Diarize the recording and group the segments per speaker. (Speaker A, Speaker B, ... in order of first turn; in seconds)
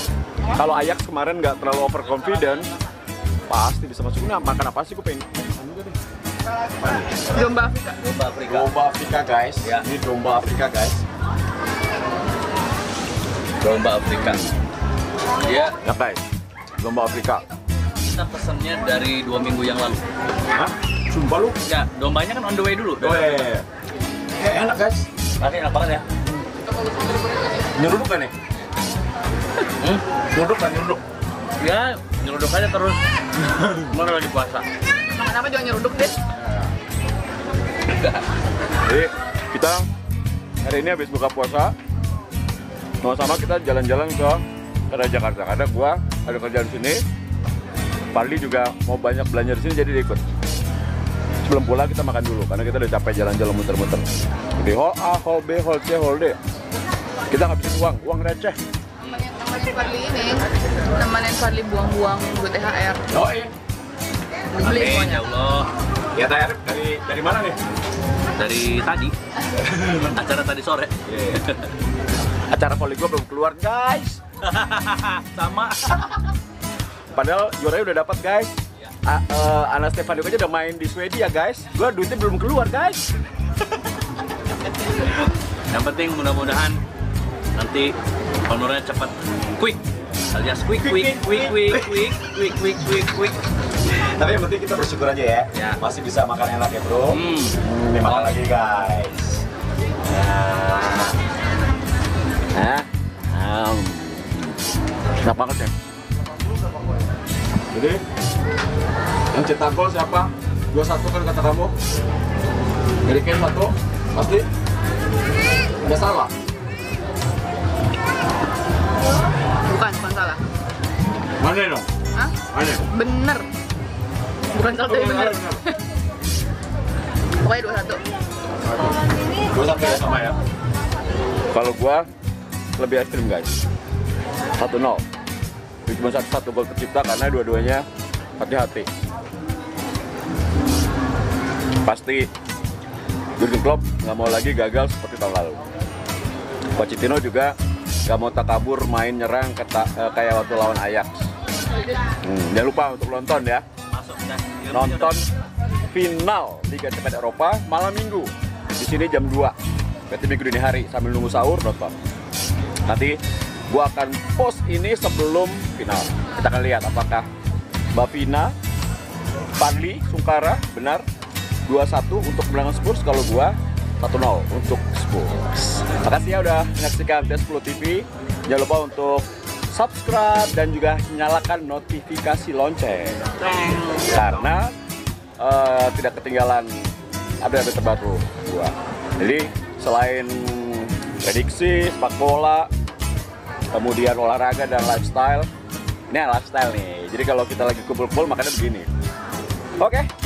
Speaker A: 0.5-2.7, 3.5-6.0, 6.8-7.4, 8.5-11.0, 15.8-16.2, 16.8-17.4, 20.5-21.6, 23.0-23.6, 24.4-25.1, 27.7-28.3, 30.3-31.0, 36.3-36.6, 38.8-39.8, 40.6-41.7, 43.0-47.0, 48.1-50.2, 51.4-56.4, 57.3-58.6, 63.1-63.5, 66.1-67.6, 71.0-71.4, 72.5-74.2, 77.1-83.0, 90.7-93.3, 93.9-99.5, 100.0-101.2, 102.5-104.6, 105.2-105.7, 106.5-106.9, 107.7-108.0, 109.3-111.7, 113.0-114.5, 115.8-116.3, 121.4-121.9, 122.5-122.8, 124.7-125.6, 128.7-128.9, 129.5-130.4, 131.5-132.1, 132.8-133.6, 134.6-135.0, 135.8-137.8, 138.4-138.9, 141.8-142.3, 143.4-145.6, 146.8-151.3, 152.1-153.6, 154.7-155.2, 155.8-159.5, 160.1-161.9, 162.8-163.2, 163.7-167.2, 167.9-168.5, 169.6-171.0, 171.7-183.3, 184.0-184.7, 185.4-192.7, 193.7-195.5, 196.1-198.9, 199.8-200.1
Speaker B: 7.3-8.0, 35.1-36.2, 59.0-63.0, 64.5-65.2, 119.7-120.4, 122.1-123.5, 124.5-125.8, 127.4-128.0
Speaker C: 8.0-8.7, 9.6-9.9, 13.6-14.5, 15.4-15.8, 18.0-20.0, 21.6-23.5, 25.4-26.1, 29.8-30.0, 31.6-34.7, 59.0-59.3, 64.6-65.7, 68.4-69.2, 69.7-71.7, 74.4-76.1, 85.7-86.8, 87.5-87.9, 88.5-93.3, 95.5-95.8, 97.1-98.4, 153.9-155.2, 183.4-184.1